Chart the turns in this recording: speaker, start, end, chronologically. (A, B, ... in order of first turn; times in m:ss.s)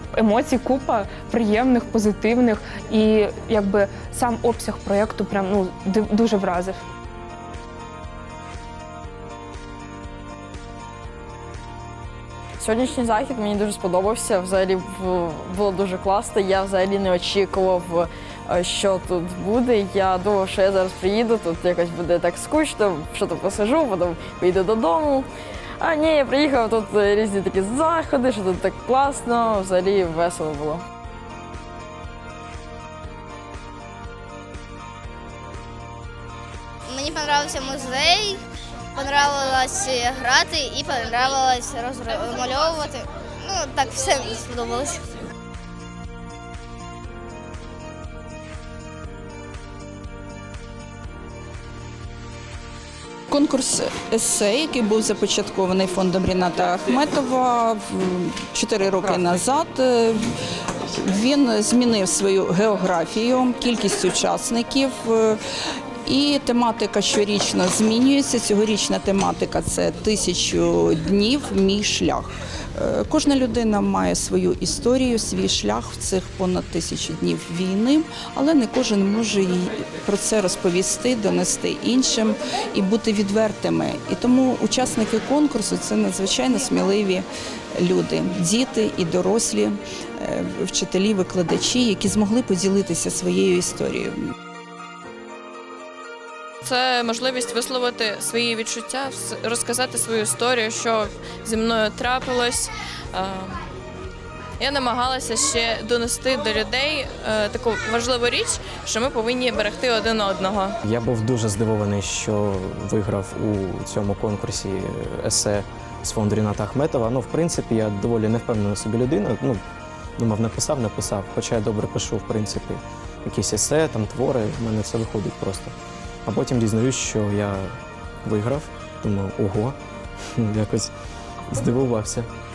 0:00.1-0:06.8 A
0:12.6-0:25.3 B
0:25.8-0:30.8 B
0:36.9-0:38.4 C
0:39.0-0:45.0 C
0:53.3-1:00.2 D
1:01.0-1:05.4 D
1:06.1-1:27.2 D
1:27.8-1:34.1 D
1:36.6-1:43.6 E
1:44.6-1:50.8 E
1:50.8-1:59.6 F
2:00.2-2:05.7 F
2:06.2-2:09.8 F
2:10.4-2:10.9 F
2:11.5-2:12.3 F